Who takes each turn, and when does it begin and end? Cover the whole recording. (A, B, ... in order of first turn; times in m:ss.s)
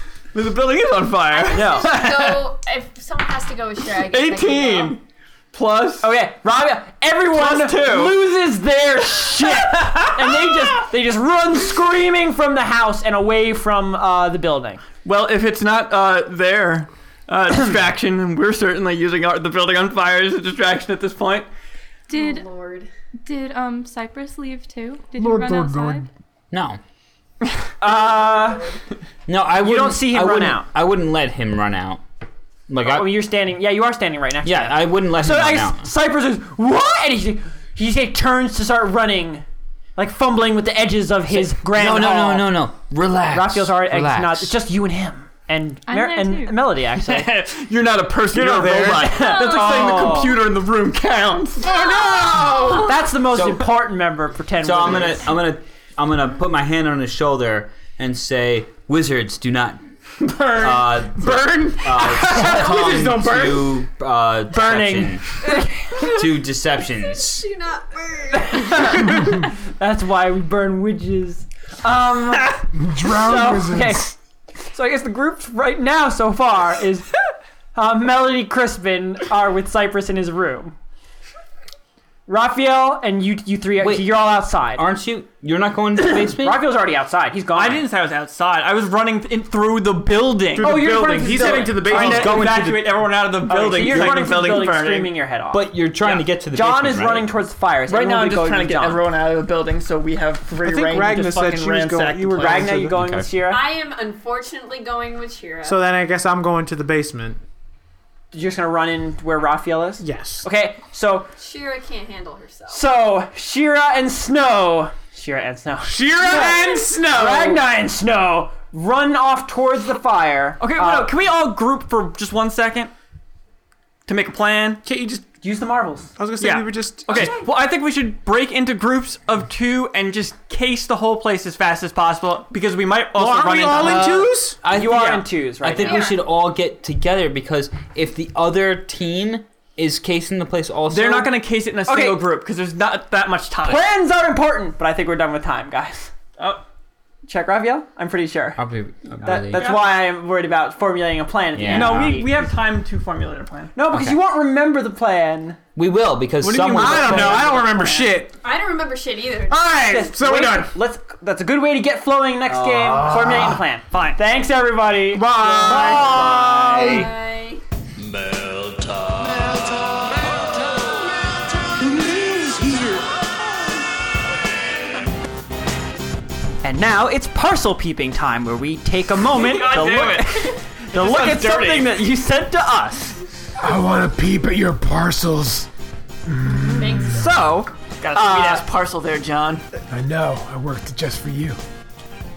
0:00.3-0:02.5 A
0:01.3-0:05.0 B
0:01.5-0:01.9 C
0:04.0-0:05.0 A
0:05.5-0:06.1 A
0:06.0-0:14.8 C
0:07.3-0:08.2 A
0:09.5-0:10.1 A
0:15.0-0:21.5 A
0:22.1-0:22.5 D
0:22.1-0:22.9 B
0:23.2-0:26.1 D
0:25.2-0:26.1 E
0:26.5-0:26.8 F
0:27.8-0:28.6 C
0:27.8-0:28.8 B
0:29.3-0:32.0 F
0:29.6-0:30.7 C
0:32.7-0:33.1 F
0:32.8-0:39.4 C
0:34.4-0:35.9 F
0:40.0-0:42.5 C
0:41.6-0:44.6 F
0:43.3-0:47.3 C
0:45.9-0:46.7 D
0:47.0-0:51.9 A
0:48.4-0:49.1 G
0:48.5-0:50.3 C
0:49.3-0:49.6 D
0:51.6-0:53.0 B
0:52.8-0:55.3 C
0:53.3-0:53.7 F
0:54.6-0:59.8 F
1:00.5-1:05.3 F
1:01.2-1:02.0 A
1:02.1-1:03.7 G
1:04.5-1:05.8 C
1:05.9-1:07.5 F
1:06.9-1:08.9 B
1:08.4-1:17.1 C
1:12.7-1:14.1 E
1:17.7-1:20.8 C
1:22.3-1:24.8 C
1:23.8-1:26.6 F
1:26.0-1:27.8 C
1:27.5-1:35.1 A
1:30.6-1:32.5 G
1:30.6-1:32.4 C
1:31.9-1:32.9 F
1:33.5-1:39.0 C
1:35.5-1:37.3 F
1:37.9-1:42.7 A
1:40.5-1:43.0 G
1:42.4-1:43.6 C
1:42.9-1:43.3 F
1:43.4-1:45.8 B
1:45.6-1:47.4 G
1:48.3-1:51.3 C
1:50.0-1:50.4 G
1:51.4-1:52.8 B
1:52.7-2:01.1 C
1:55.8-1:57.6 G
1:56.2-1:56.9 B
2:00.6-2:02.9 A
2:04.0-2:04.8 A
2:04.8-2:05.2 G
2:05.4-2:06.1 C
2:06.2-2:07.4 G
2:06.4-2:14.3 A
2:07.1-2:07.5 B
2:13.1-2:14.6 G
2:13.7-2:21.3 F
2:14.7-2:16.1 C
2:15.8-2:16.2 B
2:20.9-2:23.8 A
2:21.9-2:22.2 C
2:23.6-2:26.1 C
2:27.2-2:28.6 C
2:28.6-2:29.7 F
2:29.2-2:32.4 C
2:29.5-2:29.9 A
2:31.5-2:32.2 F
2:31.6-2:33.7 A
2:33.7-2:35.6 C
2:33.9-2:34.2 F
2:35.8-2:37.6 F
2:36.4-2:38.3 G
2:36.6-2:38.1 C
2:38.4-2:39.7 B
2:39.5-2:40.7 G
2:39.8-2:47.0 C
2:42.5-2:43.6 F
2:43.1-2:43.4 G
2:43.9-2:44.2 A
2:45.1-2:47.1 G
2:45.5-2:46.2 A
2:45.8-2:47.6 B
2:48.0-2:49.5 F
2:51.8-2:53.0 G
2:56.6-3:03.2 C
2:59.3-3:02.0 A
3:03.6-3:05.7 E
3:06.3-3:07.3 E
3:06.6-3:07.2 B
3:07.0-3:08.6 C
3:08.0-3:09.6 A
3:09.9-3:11.6 E